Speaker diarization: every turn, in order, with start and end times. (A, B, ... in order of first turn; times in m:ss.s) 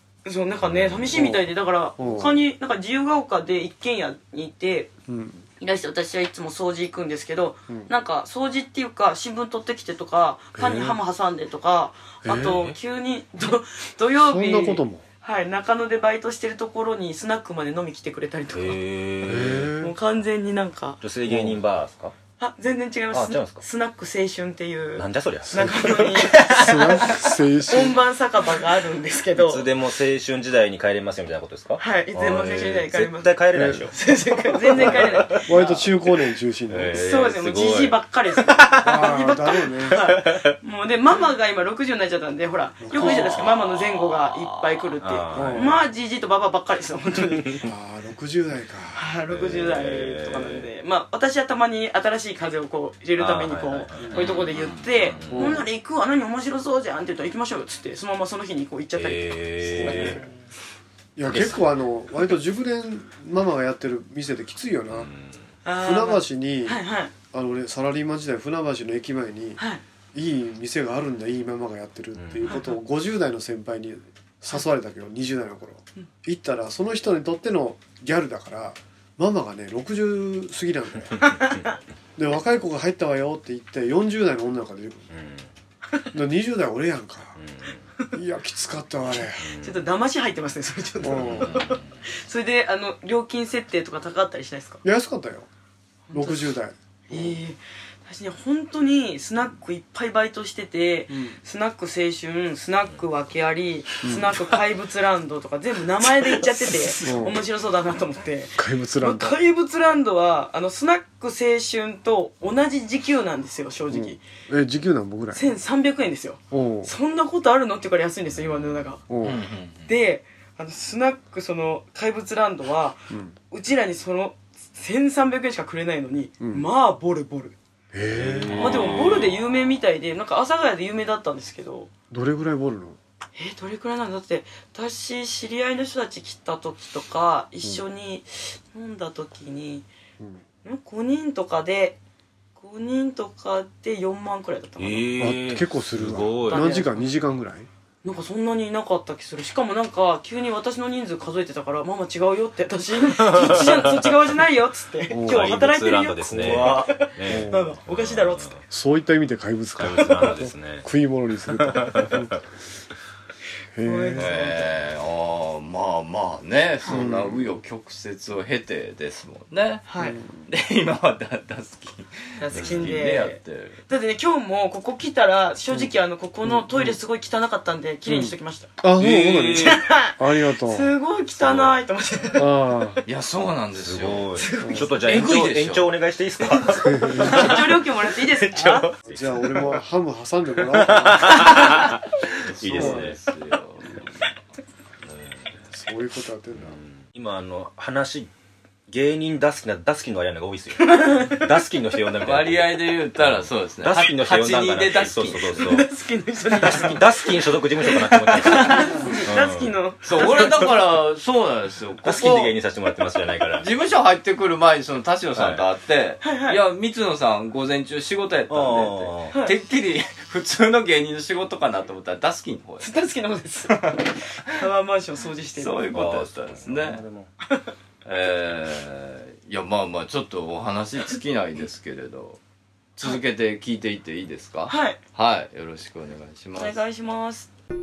0:00.2-0:04.9 A
0:00.6-0:01.3 B
0:01.1-0:01.4 C
0:02.0-0:02.4 C
0:05.1-0:05.4 C
0:05.6-0:18.8 A
0:10.6-0:11.0 C
0:12.2-0:12.7 C
0:12.3-0:12.8 B
0:14.2-0:15.0 C
0:18.5-0:19.7 B
0:19.2-0:20.0 C
0:19.8-0:21.0 A
0:21.0-0:22.1 B
0:21.2-0:21.6 C
0:22.4-0:26.6 A
0:23.1-0:23.6 B
0:25.0-0:27.1 B
0:25.5-0:28.0 C
0:27.7-0:29.7 A
0:29.4-0:34.0 B
0:31.8-0:35.6 A
0:33.5-0:33.9 C
0:34.7-0:35.4 B
0:34.8-0:36.9 C
0:36.7-0:38.0 B
0:36.9-0:47.6 A
0:38.5-0:38.9 B
0:38.8-0:40.0 C
0:39.9-0:40.6 B
0:42.8-0:43.5 C
0:42.9-0:43.6 B
0:43.3-0:44.8 D
0:45.0-0:45.8 B
0:45.3-0:45.8 C
0:47.6-0:49.0 C
0:48.9-1:00.2 A
0:49.3-0:50.7 B
0:53.2-0:55.6 B
0:54.0-0:54.2 C
0:54.2-0:54.8 D
0:55.2-0:55.6 C
0:59.0-1:00.2 B
0:59.6-1:00.3 C
1:01.2-1:05.1 C
1:01.2-1:01.6 B
1:04.9-1:05.4 B
1:05.6-1:07.1 A
1:05.8-1:09.6 C
1:10.1-1:21.2 C
1:12.2-1:12.5 B
1:12.5-1:12.8 A
1:21.3-1:21.8 A
1:22.2-1:25.1 C
1:25.1-1:25.5 B
1:26.1-1:27.4 C
1:27.4-1:27.8 B
1:28.1-1:29.5 C
1:29.4-1:29.8 B
1:29.6-1:34.8 A
1:31.0-1:31.6 C
1:31.3-1:32.0 B
1:34.8-1:35.5 C
1:36.1-1:36.6 A
1:36.1-1:37.4 C
1:37.1-1:54.2 A
1:41.1-1:41.4 C
1:44.0-1:44.3 C
1:47.0-1:47.4 C
1:48.6-1:49.4 C
1:53.9-1:55.5 C
1:55.3-1:59.0 A
1:56.5-1:56.9 C
1:59.1-1:59.4 C
1:59.2-1:59.8 D
1:59.9-2:07.6 A
2:03.1-2:03.4 C
2:06.4-2:06.7 C
2:07.9-2:08.8 C
2:08.1-2:09.2 B
2:08.6-2:11.9 A
2:12.1-2:13.0 C
2:13.4-2:19.9 A
2:20.6-2:22.0 A
2:22.6-2:25.1 A
2:24.8-2:26.8 B
2:25.2-2:27.7 C
2:26.5-2:26.9 A
2:28.0-2:38.6 A
2:33.2-2:34.1 B
2:35.1-2:35.5 C
2:35.3-2:38.6 B
2:36.3-2:36.9 D
2:37.2-2:37.8 C
2:38.7-2:42.4 C
2:39.8-2:40.9 B
2:41.5-2:42.2 B
2:43.7-2:44.5 C
2:43.8-2:44.7 A
2:44.2-2:49.9 D
2:46.9-2:47.5 C
2:49.9-2:50.2 A
2:50.0-2:50.5 C
2:50.5-2:53.8 D
2:52.4-2:58.7 A
2:56.4-2:57.0 C
2:58.1-3:00.9 C
2:59.0-2:59.8 B
2:59.6-3:03.0 A
3:01.4-3:01.8 B
3:02.4-3:03.0 C
3:03.1-3:04.3 D
3:03.8-3:09.8 B
3:04.4-3:05.0 A
3:05.0-3:06.0 D
3:06.7-3:07.6 C
3:07.0-3:08.9 A
3:09.1-3:11.8 C
3:10.7-3:13.2 B
3:12.5-3:14.0 D
3:12.6-3:13.2 C
3:15.7-3:16.8 C
3:16.6-3:18.3 B
3:18.9-3:25.8 B
3:20.8-3:21.5 A
3:22.2-3:25.7 D
3:25.6-3:30.7 A
3:26.5-3:30.3 B
3:30.0-3:32.6 D
3:32.0-3:33.7 B
3:33.6-3:42.9 D
3:36.2-3:36.6 A
3:38.5-3:39.3 B
3:42.8-3:45.9 A
3:43.7-3:44.0 D
3:45.6-3:47.0 D
3:45.9-3:47.3 B
3:48.0-3:52.4 D
3:53.0-3:56.8 D
3:54.7-3:55.0 A
3:56.6-3:57.5 A